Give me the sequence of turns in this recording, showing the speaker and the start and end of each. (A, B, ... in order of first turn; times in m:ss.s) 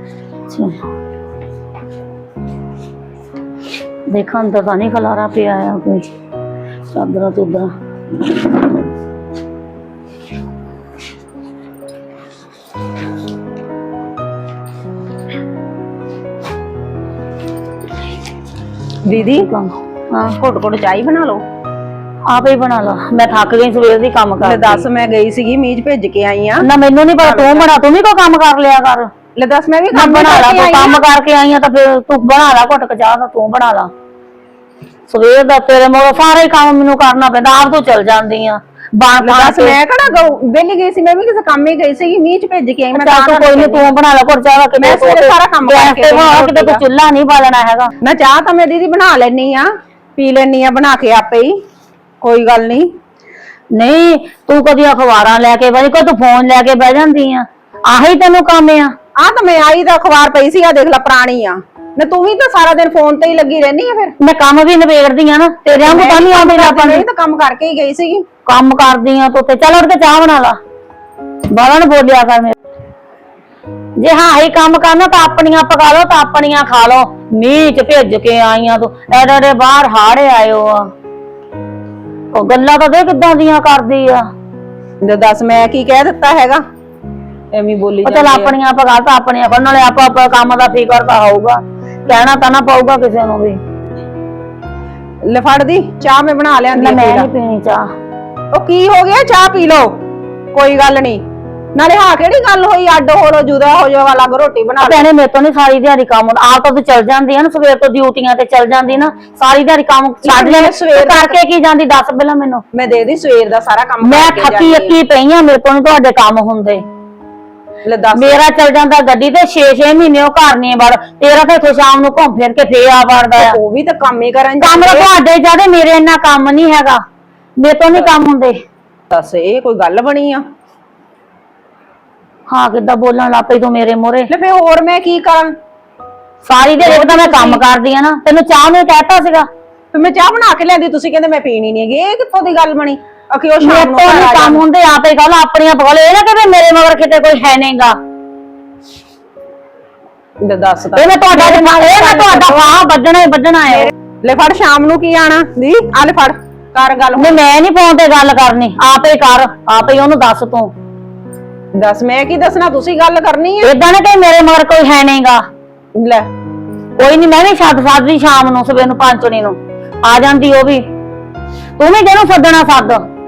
0:00.5-0:00.8 A
0:04.1-0:06.1 A
0:06.9-0:07.7 A
0:19.0-0:19.5 B
0:19.3-0:20.4 A
0:20.4-0:21.4 B
0:22.3-0:24.9 A
0:24.4-0:26.7 B
0:26.6-0:29.1 A
0:27.2-0:27.7 B
0:29.4-0:31.0 B
0:29.9-0:33.9 A
0:35.1-0:39.8 A
0:39.2-0:43.9 B
0:43.0-0:47.9 A
0:44.8-0:46.8 B
0:48.0-0:51.6 B
0:52.2-0:52.9 B
0:53.7-0:59.0 A
0:59.2-1:04.2 B
1:04.2-1:07.0 A
1:05.8-1:08.2 B
1:08.4-1:10.6 A
1:11.5-1:12.6 A
1:14.0-1:20.9 A
1:22.3-1:24.3 A
1:25.0-1:26.6 B
1:27.5-1:28.5 B
1:28.0-1:33.6 A
1:35.2-1:37.3 B
1:36.7-1:37.9 A
1:38.5-1:40.0 B
1:40.5-1:45.1 B
1:44.8-1:52.6 A
1:50.2-1:51.4 B
1:52.7-1:55.0 B
1:54.0-1:56.8 A
1:57.8-1:58.4 B
1:58.1-2:03.6 A
2:03.4-2:05.1 B
2:04.6-2:07.0 A
2:07.6-2:08.6 A
2:09.1-2:10.5 B
2:12.5-2:14.3 A
2:14.3-2:15.6 B
2:16.4-2:19.5 A
2:16.8-2:17.6 B
2:19.9-2:24.6 B
2:23.6-2:28.0 A
2:30.4-2:32.7 B
2:31.0-2:33.9 A
2:33.7-2:37.4 B
2:37.2-2:40.7 A
2:41.7-2:43.7 B
2:43.6-2:45.4 A
2:46.0-2:46.3 B
2:47.0-2:50.9 A
2:51.8-2:53.1 A